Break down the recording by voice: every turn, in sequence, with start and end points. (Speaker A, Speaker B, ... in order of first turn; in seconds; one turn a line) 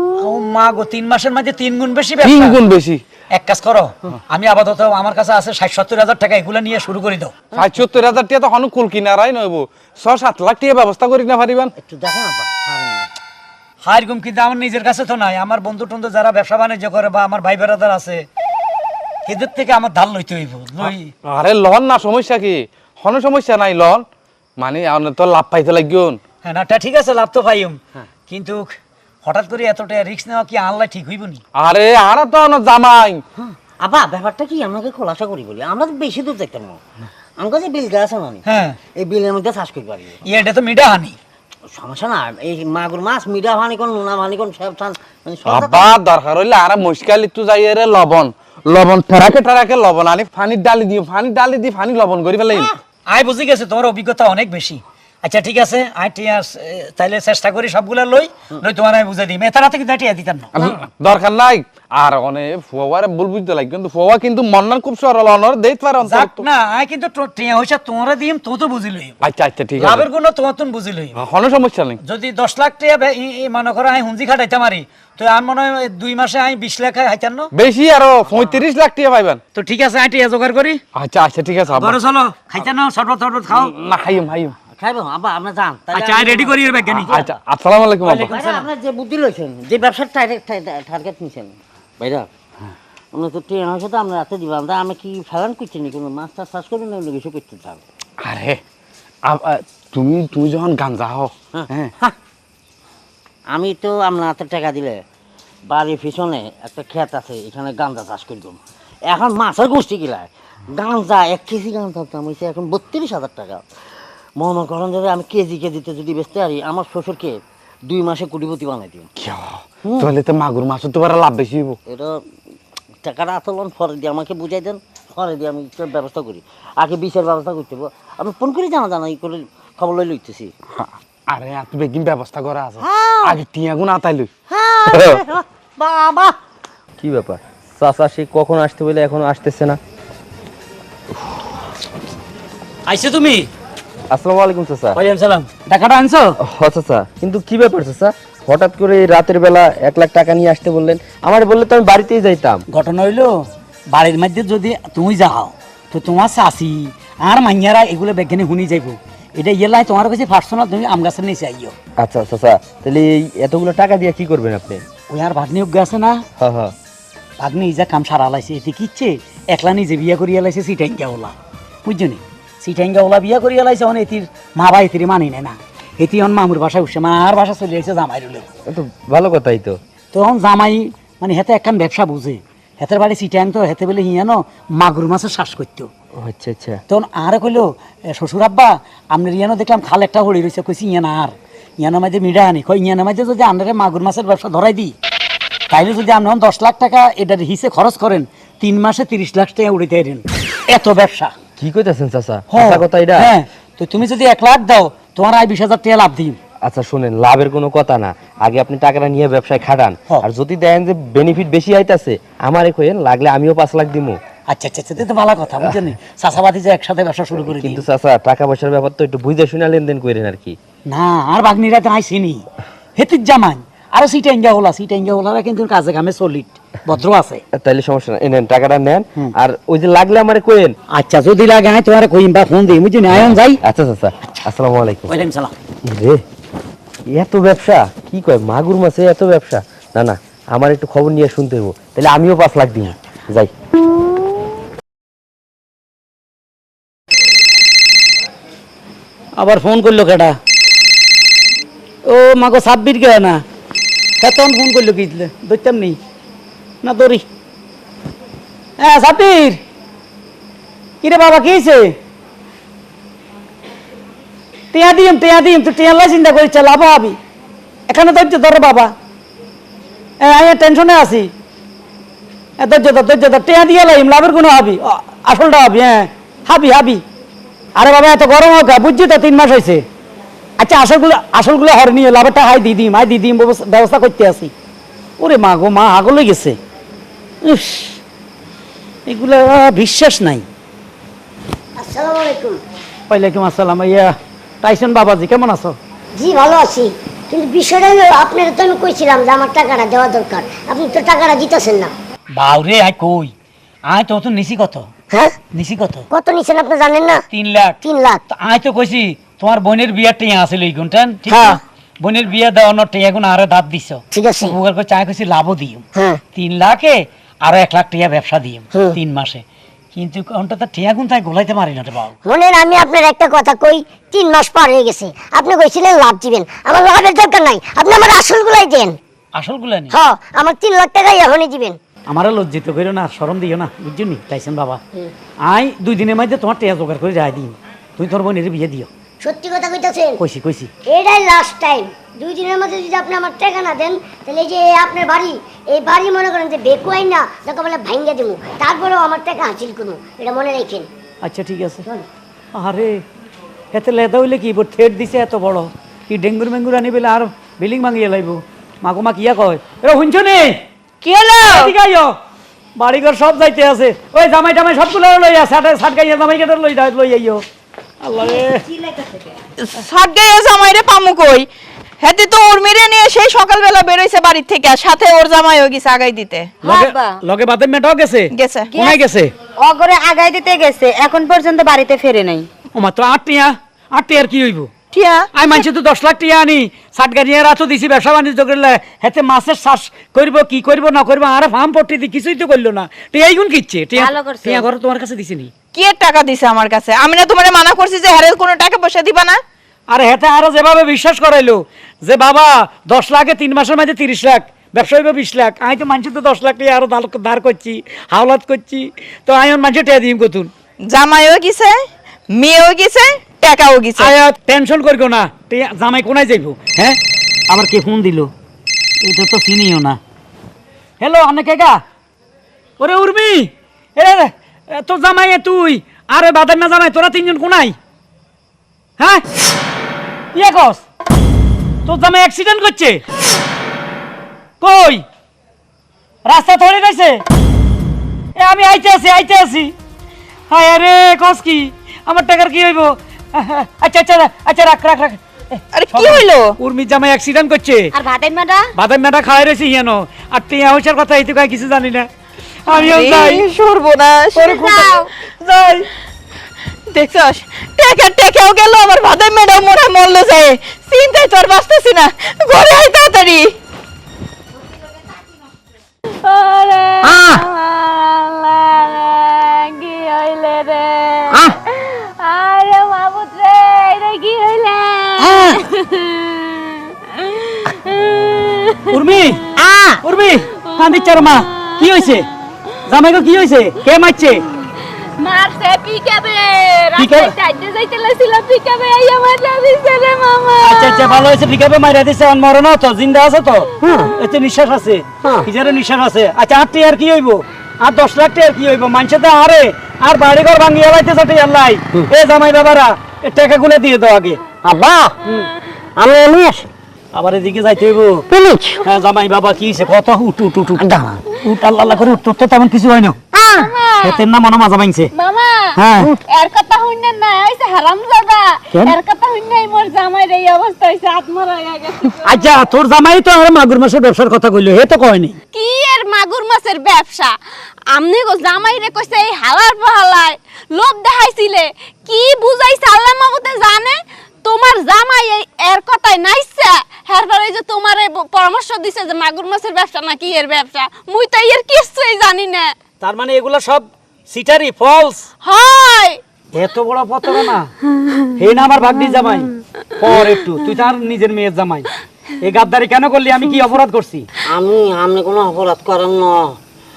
Speaker A: 0.2-2.6
Speaker B: 2.2-3.0
Speaker A: 3.3-7.4
Speaker B: 7.5-11.7
Speaker C: 11.8-13.1
Speaker A: 13.8-18.3
Speaker A: 19.3-21.1
Speaker B: 20.8-24.1
Speaker B: 24.6-26.2
Speaker A: 26.4-28.7
Speaker A: 29.2-31.4
Speaker B: 31.6-33.2
Speaker C: 33.4-36.8
Speaker C: 37.4-38.5
Speaker A: 38.5-38.8
Speaker C: 39.0-40.2
Speaker A: 40.3-41.2
Speaker C: 41.7-45.9
Speaker B: 45.5-52.7
Speaker A: 53.1-60.5
Speaker B: 60.5-66.4
Speaker A: 66.0-69.2
Speaker B: 69.2-70.1
Speaker A: 69.8-71.2
Speaker B: 71.2-72.0
Speaker A: 72.0-77.5
Speaker B: 77.5-79.4
Speaker A: 79.5-80.8
Speaker B: 81.0-82.0
Speaker A: 81.7-83.7
Speaker B: 83.5-84.5
Speaker C: 84.8-87.4
Speaker A: 85.9-87.2
Speaker B: 87.1-88.3
Speaker A: 88.0-88.7
Speaker C: 88.2-92.3
Speaker C: 93.1-97.8
Speaker B: 98.2-98.6
Speaker B: 99.3-101.9
Speaker C: 101.5-102.2
Speaker C: 103.5-105.0
Speaker C: 105.7-113.6
Speaker C: 114.4-119.1
Speaker B: 119.2-121.8
Speaker C: 119.8-120.1
Speaker C: 121.9-122.2
Speaker C: 123.0-130.5
Speaker B: 130.8-134.3
Speaker C: 132.9-133.2
Speaker D: 134.9-135.2
Speaker D: 137.0-139.8
Speaker A: 142.9-143.5
Speaker D: 144.1-145.0
Speaker A: 144.9-146.3
Speaker D: 146.4-152.6
Speaker A: 152.7-153.3
Speaker A: 153.9-161.8
Speaker D: 162.0-164.8
Speaker A: 165.1-166.2
Speaker D: 166.4-166.7
Speaker A: 167.4-178.5
Speaker D: 178.7-179.8
Speaker A: 180.1-185.9
Speaker D: 186.2-186.8
Speaker A: 186.9-194.9
Speaker A: 195.7-201.3
Speaker D: 201.6-203.3
Speaker A: 202.5-206.4
Speaker D: 206.6-214.2
Speaker A: 214.5-217.8
Speaker D: 217.3-220.6
Speaker A: 220.9-227.4
Speaker D: 227.5-230.8
Speaker A: 230.9-233.6
Speaker D: 233.6-235.2
Speaker A: 235.1-235.5
Speaker D: 235.8-236.2
Speaker D: 237.1-243.5
Speaker A: 249.4-250.4
Speaker A: 252.1-253.4
Speaker A: 254.2-256.0
Speaker A: 256.8-257.3
Speaker A: 258.8-259.6
Speaker A: 261.0-262.0
Speaker A: 264.7-267.2
Speaker A: 267.9-268.9
Speaker A: 270.2-271.3
Speaker A: 272.6-277.0
Speaker A: 277.8-279.9
Speaker A: 280.6-284.5
Speaker A: 285.2-286.6
Speaker A: 287.4-288.0
Speaker A: 289.1-290.4
Speaker E: 291.8-292.6
Speaker A: 293.1-295.8
Speaker E: 296.2-301.9
Speaker A: 302.3-303.3
Speaker A: 303.9-304.9
Speaker A: 305.5-306.1
Speaker E: 306.1-307.2
Speaker A: 307.3-307.8
Speaker E: 307.8-308.2
Speaker A: 308.3-319.4
Speaker E: 314.1-314.6
Speaker A: 319.9-322.1
Speaker E: 322.2-329.0
Speaker A: 329.4-329.9
Speaker E: 329.9-331.8
Speaker A: 332.1-334.8
Speaker A: 335.4-338.9
Speaker E: 339.2-340.2
Speaker A: 340.2-340.7
Speaker E: 340.9-350.9
Speaker A: 351.2-351.8
Speaker A: 352.5-353.0
Speaker A: 353.7-360.6
Speaker F: 361.0-361.8
Speaker A: 361.4-362.2
Speaker A: 362.8-367.4
Speaker A: 368.0-368.7
Speaker F: 369.6-371.5
Speaker F: 372.0-376.6
Speaker A: 376.6-379.3
Speaker G: 376.6-377.2
Speaker F: 378.3-378.8
Speaker G: 378.7-379.0
Speaker G: 379.6-382.5
Speaker A: 382.8-384.7
Speaker F: 384.9-385.6
Speaker A: 385.3-395.5
Speaker G: 394.0-394.7
Speaker F: 395.7-399.4
Speaker A: 399.9-410.5
Speaker F: 410.9-414.1
Speaker A: 414.0-418.3
Speaker A: 419.0-420.0
Speaker A: 421.0-421.8
Speaker A: 422.8-427.8
Speaker A: 429.0-429.2
Speaker A: 430.3-430.8
Speaker A: 431.9-433.0
Speaker A: 434.6-435.1
Speaker A: 436.3-437.2
Speaker A: 438.4-439.7
Speaker A: 440.5-447.9
Speaker F: 445.7-446.6
Speaker G: 447.9-448.7
Speaker A: 448.8-452.1
Speaker A: 452.7-453.5
Speaker F: 452.8-455.1
Speaker A: 454.4-455.9
Speaker F: 456.9-463.6
Speaker H: 466.2-479.0
Speaker C: 467.0-467.4
Speaker C: 471.3-471.6
Speaker G: 475.2-475.6
Speaker A: 478.9-479.5
Speaker G: 479.6-480.0
Speaker A: 480.0-482.3
Speaker H: 480.7-482.1
Speaker A: 482.9-484.4
Speaker H: 485.2-491.3
Speaker A: 487.0-487.3
Speaker A: 490.6-504.4
Speaker C: 493.8-494.1
Speaker C: 495.2-495.5
Speaker C: 504.6-505.2
Speaker A: 505.2-505.5
Speaker C: 506.0-506.7
Speaker A: 507.1-508.3
Speaker C: 508.3-508.8
Speaker A: 508.8-513.2
Speaker C: 510.8-511.2
Speaker C: 513.4-513.6
Speaker H: 513.5-514.2
Speaker A: 514.0-515.1
Speaker H: 515.1-515.8
Speaker A: 515.8-516.1
Speaker H: 516.3-522.5
Speaker A: 522.2-525.4
Speaker H: 525.5-527.4
Speaker H: 527.9-542.7
Speaker A: 543.0-545.3
Speaker H: 545.4-546.2
Speaker A: 546.5-547.7
Speaker A: 548.4-551.9
Speaker A: 552.4-554.3
Speaker C: 554.5-556.6